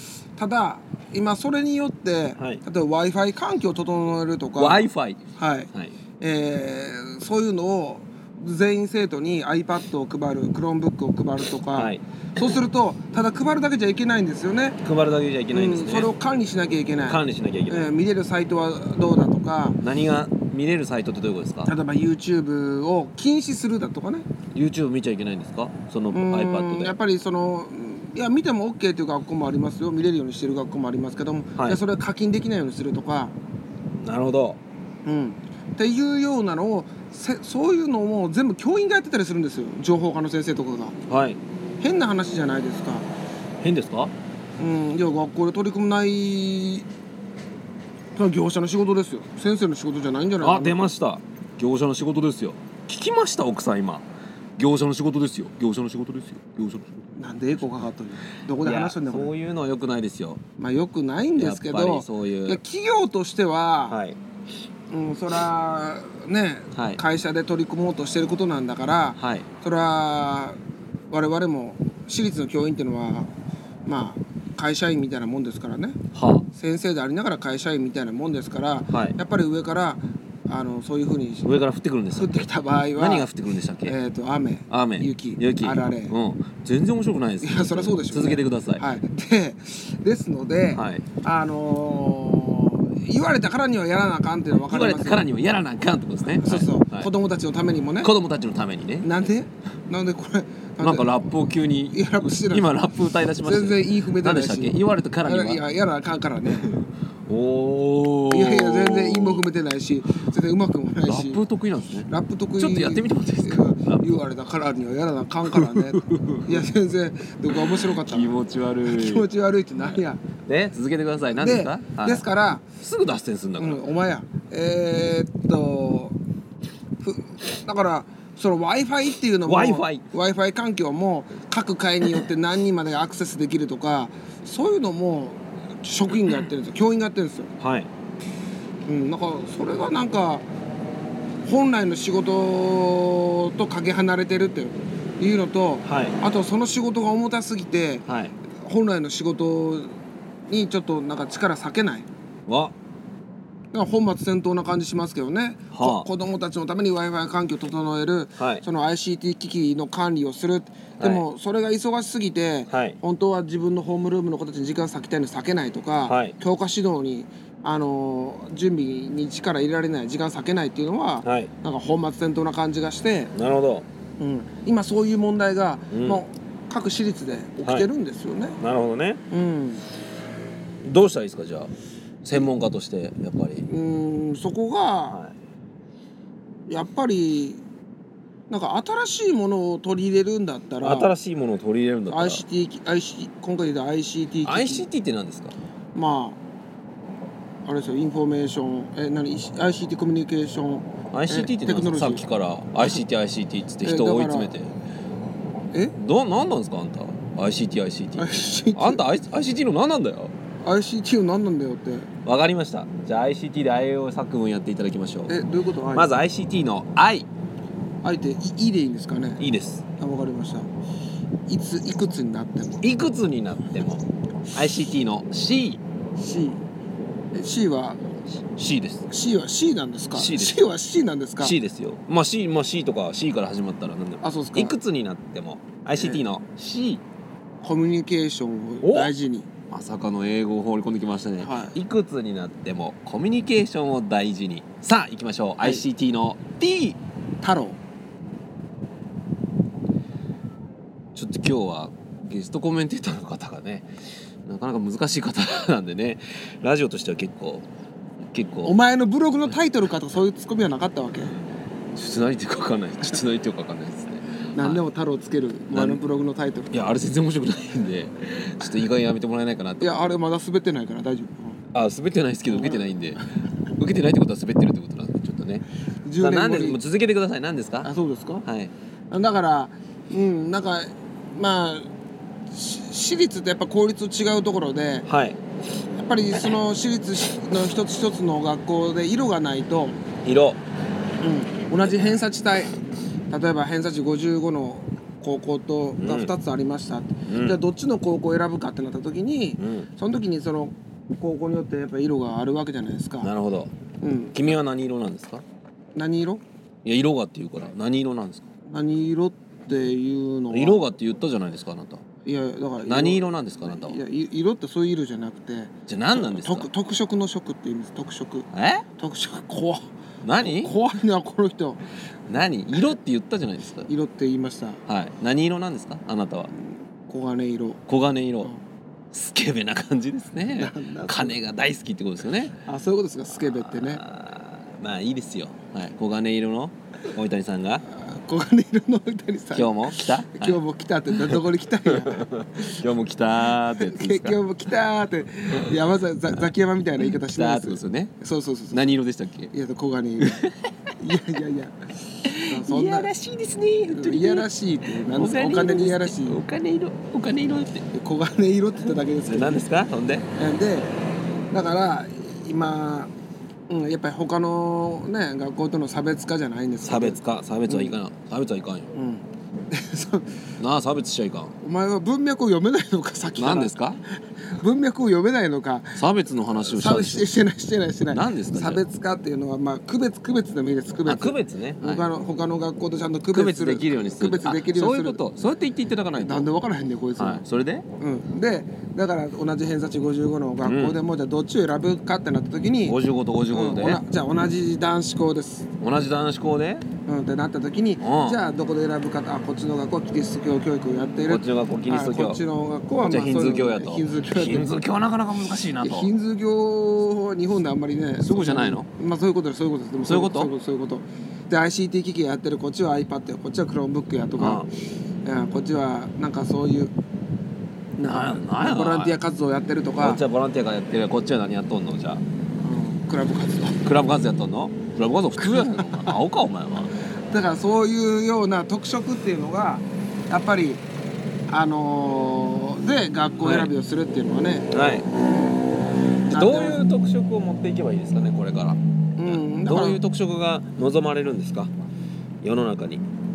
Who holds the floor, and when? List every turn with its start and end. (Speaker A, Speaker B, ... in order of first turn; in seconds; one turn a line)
Speaker A: 0.4-4.8
Speaker B: 2.4-2.6
Speaker B: 4.6-5.9
Speaker A: 5.4-5.7
Speaker A: 6.2-14.8
Speaker B: 11.8-12.0
Speaker B: 14.8-16.1
Speaker A: 15.5-19.8
Speaker B: 17.1-17.9
Speaker B: 19.8-21.7
Speaker A: 21.7-24.3
Speaker B: 24.5-26.9
Speaker A: 26.1-33.3
Speaker B: 34.0-34.6
Speaker A: 35.0-41.0
Speaker B: 41.1-41.4
Speaker A: 41.8-43.1
Speaker B: 43.6-44.1
Speaker A: 44.6-46.9
Speaker A: 48.2-50.8
Speaker B: 50.4-54.0
Speaker B: 54.6-57.1
Speaker A: 57.2-59.3
Speaker B: 58.6-60.4
Speaker A: 60.6-64.0
Speaker B: 61.4-62.6
Speaker B: 63.9-64.2
Speaker A: 64.9-70.6
Speaker B: 66.7-67.0
Speaker B: 69.2-69.5
Speaker A: 71.1-73.3
Speaker A: 73.9-76.0
Speaker B: 76.1-76.5
Speaker A: 76.5-81.5
Speaker B: 78.9-79.2
Speaker B: 81.4-84.0
Speaker A: 82.2-83.3
Speaker A: 83.9-86.2
Speaker B: 84.7-88.8
Speaker A: 87.4-95.3
Speaker B: 90.7-91.0
Speaker B: 94.7-97.1
Speaker A: 96.3-98.1
Speaker B: 98.0-99.1
Speaker A: 99.0-101.3
Speaker B: 100.8-105.6
Speaker A: 101.9-102.8
Speaker A: 103.4-106.7
Speaker B: 107.3-109.4
Speaker A: 108.3-111.4
Speaker B: 111.1-114.0
Speaker A: 112.1-120.2
Speaker B: 115.5-116.6
Speaker B: 117.5-119.3
Speaker B: 119.8-122.2
Speaker A: 121.3-122.6
Speaker B: 122.8-123.8
Speaker A: 123.6-126.2
Speaker A: 127.0-137.5
Speaker B: 129.4-130.0
Speaker B: 137.6-137.9
Speaker A: 138.9-140.4
Speaker A: 141.4-148.1
Speaker B: 145.8-146.2
Speaker B: 148.1-148.3
Speaker A: 148.6-149.9
Speaker A: 150.5-152.1
Speaker B: 152.5-152.7
Speaker A: 153.7-173.3
Speaker B: 155.7-156.1
Speaker B: 158.4-158.6
Speaker B: 161.0-161.2
Speaker B: 162.7-163.0
Speaker B: 166.1-166.3
Speaker B: 171.2-171.5
Speaker B: 173.3-173.9
Speaker A: 174.2-178.6
Speaker B: 175.9-176.2
Speaker B: 177.6-177.9
Speaker B: 178.6-179.2
Speaker A: 179.3-179.8
Speaker B: 180.8-181.7
Speaker B: 182.2-183.7
Speaker A: 183.7-185.2
Speaker A: 186.7-187.6
Speaker A: 188.5-191.1
Speaker B: 190.8-192.4
Speaker A: 192.1-194.8
Speaker B: 194.4-195.6
Speaker A: 195.9-196.4
Speaker A: 197.7-202.2
Speaker B: 201.1-204.7
Speaker A: 203.8-204.5
Speaker B: 205.9-210.3
Speaker A: 208.2-209.0
Speaker A: 210.6-212.1
Speaker B: 212.2-215.4
Speaker A: 215.3-216.1
Speaker B: 215.9-217.3
Speaker A: 218.0-219.4
Speaker B: 219.4-219.8
Speaker A: 220.0-220.7
Speaker A: 221.5-222.8
Speaker B: 222.8-225.8
Speaker A: 226.2-226.6
Speaker A: 227.3-228.0
Speaker B: 228.6-229.1
Speaker A: 229.1-231.6
Speaker B: 230.1-230.6
Speaker B: 231.4-237.0
Speaker A: 234.2-234.8
Speaker A: 235.9-236.2
Speaker A: 237.6-239.5
Speaker B: 238.8-239.1
Speaker B: 239.7-247.0
Speaker A: 241.4-241.8
Speaker A: 247.4-247.8
Speaker B: 251.2-253.9
Speaker B: 254.4-257.7
Speaker B: 258.2-258.8
Speaker A: 258.6-261.3
Speaker B: 261.9-264.8
Speaker A: 264.5-266.9
Speaker B: 265.7-266.0
Speaker B: 266.7-270.1
Speaker A: 269.8-271.6
Speaker B: 271.7-273.2
Speaker A: 272.5-273.2
Speaker B: 273.8-275.6
Speaker A: 276.1-276.8
Speaker B: 276.2-277.9
Speaker A: 277.8-278.5
Speaker B: 278.4-278.7
Speaker A: 279.1-281.9
Speaker A: 282.5-285.1
Speaker B: 285.1-285.4
Speaker A: 286.0-290.0
Speaker B: 290.2-290.6
Speaker A: 291.2-292.8
Speaker B: 291.8-292.1
Speaker A: 293.3-303.3
Speaker B: 296.0-296.3
Speaker B: 297.3-297.6
Speaker B: 299.6-299.9
Speaker B: 303.2-303.7
Speaker A: 304.0-304.4
Speaker B: 304.3-305.4
Speaker A: 305.9-306.4
Speaker B: 306.9-308.5
Speaker A: 308.7-310.9
Speaker B: 310.5-312.0
Speaker A: 312.2-318.5
Speaker B: 312.8-314.0
Speaker B: 315.9-316.7
Speaker B: 318.5-318.9
Speaker A: 319.0-321.8
Speaker B: 320.2-320.7
Speaker B: 322.3-323.9
Speaker A: 323.9-324.8
Speaker B: 324.9-326.5
Speaker A: 326.5-327.8
Speaker B: 327.9-328.5
Speaker B: 329.1-332.6
Speaker A: 330.6-331.4
Speaker A: 332.7-334.0
Speaker B: 333.4-337.9
Speaker A: 337.9-342.8
Speaker B: 339.5-340.6
Speaker B: 341.1-344.4
Speaker A: 343.8-348.9
Speaker B: 347.0-348.1
Speaker B: 348.7-349.5
Speaker A: 349.5-350.4
Speaker B: 350.2-350.6
Speaker A: 351.0-351.8
Speaker B: 352.3-357.9
Speaker A: 352.4-353.1
Speaker A: 353.9-356.4
Speaker A: 357.9-359.6
Speaker B: 359.3-360.3
Speaker A: 360.4-361.0
Speaker A: 361.5-363.1
Speaker A: 363.7-368.0
Speaker B: 366.8-368.9
Speaker A: 368.9-370.4
Speaker B: 370.6-371.6
Speaker A: 371.6-373.8
Speaker B: 373.4-374.0
Speaker A: 374.5-385.2
Speaker B: 376.0-377.3
Speaker B: 378.1-378.8
Speaker B: 381.1-382.1
Speaker B: 383.3-386.5
Speaker A: 386.2-387.4
Speaker B: 387.2-387.8
Speaker A: 388.0-393.0
Speaker B: 390.6-391.0
Speaker B: 392.9-394.0
Speaker A: 393.5-395.7
Speaker B: 395.8-396.9
Speaker A: 397.1-404.8
Speaker B: 398.0-398.4
Speaker B: 401.3-402.4
Speaker B: 403.0-406.1
Speaker A: 405.8-414.7
Speaker B: 408.2-408.9
Speaker B: 410.0-410.5
Speaker B: 414.4-414.7
Speaker A: 415.2-416.9
Speaker A: 418.0-420.2
Speaker B: 418.0-419.2
Speaker B: 420.0-422.2
Speaker A: 422.6-423.8
Speaker B: 423.8-426.9
Speaker A: 425.4-426.1
Speaker A: 427.3-430.8
Speaker A: 431.5-435.6
Speaker B: 433.4-433.7
Speaker B: 434.7-435.1
Speaker B: 436.3-441.7
Speaker A: 436.3-436.8
Speaker A: 439.2-440.0
Speaker B: 442.4-443.0